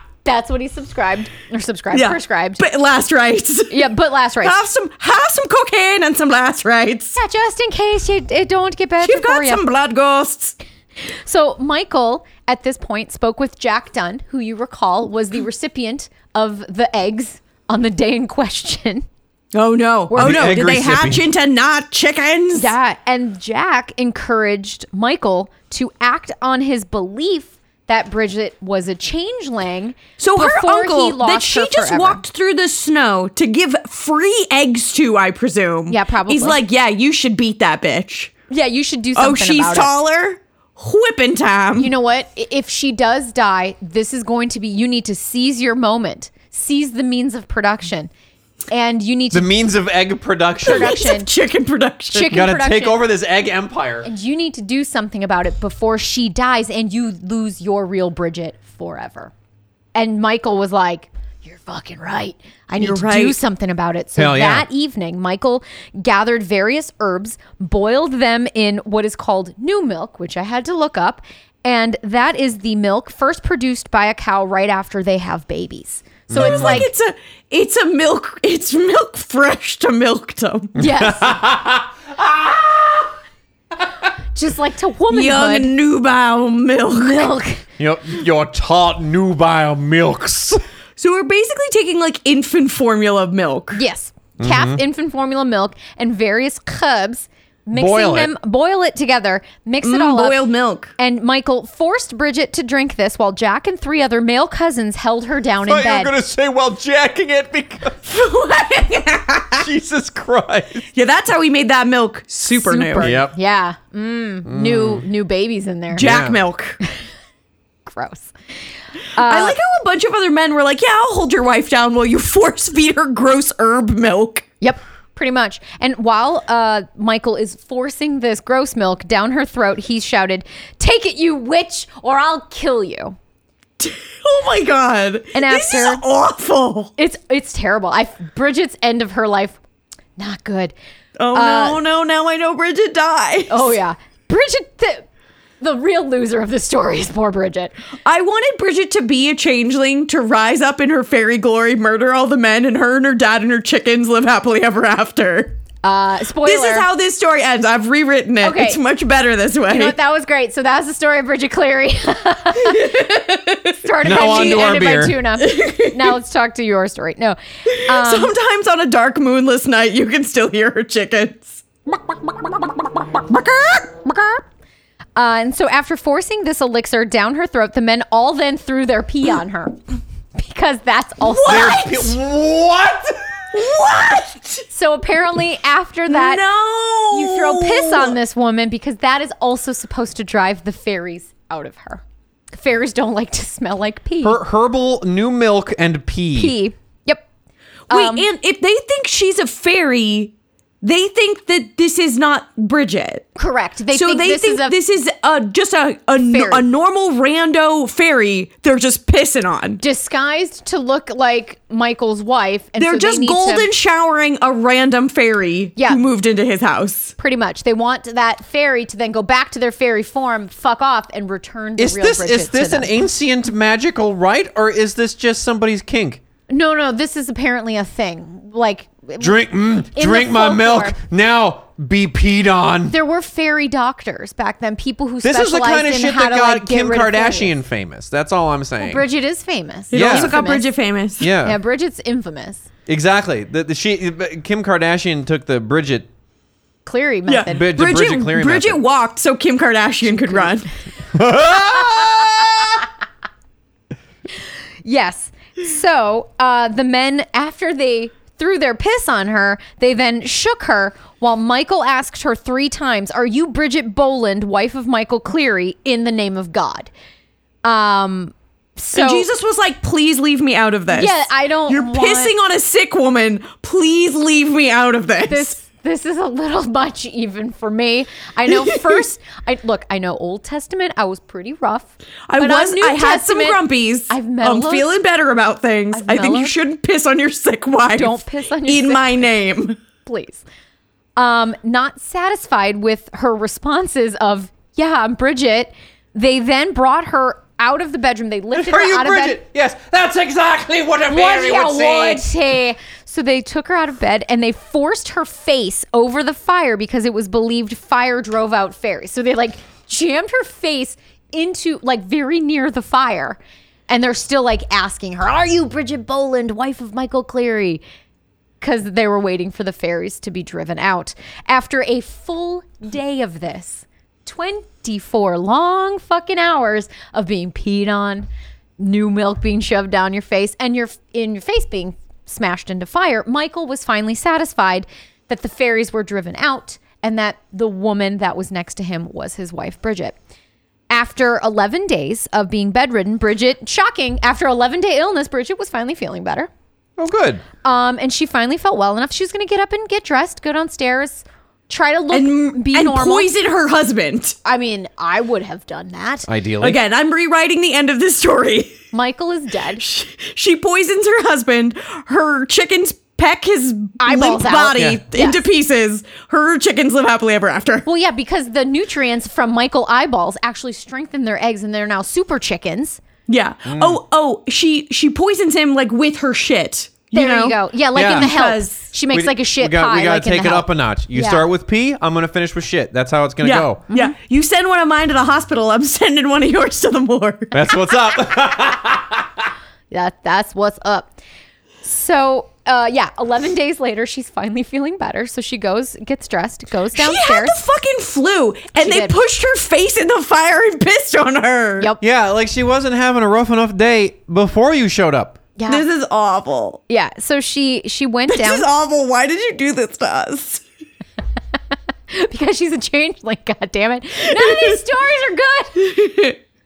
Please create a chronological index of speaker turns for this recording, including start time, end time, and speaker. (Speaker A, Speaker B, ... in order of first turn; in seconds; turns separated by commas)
Speaker A: 0.2-2.6, Speaker B: 1.9-3.9, Speaker A: 3.7-4.7, Speaker B: 4.4-7.2, Speaker A: 7.2-9.6, Speaker B: 9.0-10.6, Speaker A: 11.2-19.1, Speaker B: 19.5-22.7, Speaker A: 20.1-20.6, Speaker C: 20.1-21.2, Speaker A: 22.5-32.2, Speaker B: 30.2-38.3, Speaker A: 35.9-36.6, Speaker A: 38.5-39.9, Speaker B: 39.2-41.9, Speaker A: 41.8-48.1, Speaker A: 48.7-49.6, Speaker C: 49.3-51.0, Speaker A: 50.6-51.3, Speaker B: 50.6-52.4, Speaker A: 52.1-53.0, Speaker C: 52.3-54.1, Speaker A: 54.0-59.3, Speaker A: 60.0-76.9, Speaker B: 62.8-63.4, Speaker C: 64.2-64.7, Speaker C: 76.3-76.9, Speaker B: 76.3-80.8, Speaker A: 80.8-81.4, Speaker C: 80.8-83.1, Speaker A: 84.3-85.7, Speaker B: 85.1-87.3, Speaker A: 86.9-87.6, Speaker C: 87.8-90.6, Speaker B: 91.0-93.8, Speaker A: 93.7-106.1, Speaker C: 94.4-94.8, Speaker C: 97.7-98.3, Speaker B: 99.8-100.9, Speaker C: 105.7-108.0, Speaker B: 108.0-109.7, Speaker C: 109.6-110.9, Speaker B: 110.9-113.1, Speaker A: 112.5-116.1, Speaker C: 113.0-113.3, Speaker C: 114.5-115.0, Speaker B: 115.9-116.8, Speaker C: 116.0-116.4, Speaker A: 117.9-118.3, Speaker A: 119.2-119.6, Speaker B: 119.2-124.5, Speaker A: 124.6-133.2, Speaker B: 133.8-136.9, Speaker A: 135.3-136.0, Speaker A: 137.0-139.6, Speaker A: 140.2-140.8, Speaker B: 141.2-143.8, Speaker A: 141.3-141.8, Speaker A: 143.5-145.1, Speaker A: 145.6-147.7, Speaker B: 148.1-155.6, Speaker A: 155.8-156.9, Speaker B: 156.4-160.0, Speaker A: 158.4-158.8, Speaker A: 159.7-163.1, Speaker B: 162.6-164.7, Speaker A: 163.8-168.3, Speaker C: 164.0-165.2, Speaker B: 165.4-166.1, Speaker B: 167.7-174.4, Speaker A: 175.2-179.8, Speaker A: 180.3-182.2, Speaker B: 181.3-181.9, Speaker C: 181.5-183.5, Speaker B: 183.5-184.7, Speaker A: 184.7-186.4, Speaker B: 186.1-188.2, Speaker A: 187.1-194.4, Speaker C: 194.2-196.5, Speaker A: 196.4-197.2, Speaker A: 197.9-198.3, Speaker B: 197.9-203.3, Speaker A: 203.4-204.8, Speaker B: 203.9-209.8, Speaker A: 206.2-206.7, Speaker A: 209.8-213.7, Speaker B: 212.8-217.2, Speaker A: 217.2-223.1, Speaker C: 221.8-226.2, Speaker A: 226.5-231.0, Speaker C: 229.2-232.9, Speaker A: 232.9-237.5, Speaker C: 235.2-239.1, Speaker A: 238.8-240.7, Speaker B: 239.9-241.3, Speaker C: 239.9-240.4, Speaker C: 241.2-241.6, Speaker A: 241.4-242.7, Speaker C: 242.9-246.1, Speaker A: 246.9-247.7, Speaker B: 247.3-250.7, Speaker C: 247.5-248.8, Speaker A: 250.1-250.5, Speaker C: 251.1-252.8, Speaker A: 251.8-252.5, Speaker A: 254.8-266.9, Speaker A: 267.6-269.3, Speaker B: 268.9-275.6, Speaker A: 270.9-272.3, Speaker A: 275.3-284.9, Speaker B: 282.3-289.8, Speaker A: 285.9-286.6, Speaker A: 287.9-289.2, Speaker A: 290.0-290.4, Speaker A: 291.2-299.4, Speaker C: 298.6-302.3, Speaker A: 301.1-317.8, Speaker A: 318.6-340.2, Speaker A: 340.9-346.5, Speaker C: 347.0-347.4, Speaker A: 347.6-353.3, Speaker B: 352.1-354.4, Speaker A: 354.4-356.3, Speaker C: 356.3-356.8, Speaker B: 356.6-358.8, Speaker A: 358.9-359.8, Speaker B: 359.8-367.9, Speaker A: 364.0-365.4, Speaker C: 364.8-365.0, Speaker A: 367.9-373.0, Speaker B: 373.3-378.8, Speaker C: 373.7-374.0, Speaker A: 377.1-381.4, Speaker C: 377.9-378.3, Speaker C: 379.1-383.8, Speaker B: 383.4-387.5, Speaker C: 387.5-389.5, Speaker A: 389.9-391.1, Speaker A: 391.8-397.6, Speaker B: 396.9-401.9, Speaker A: 398.8-399.2, Speaker C: 402.0-405.4, Speaker A: 405.6-405.9, Speaker B: 405.7-406.8, Speaker A: 406.9-408.7, Speaker B: 408.3-410.6, Speaker A: 412.1-416.1, Speaker B: 415.9-416.4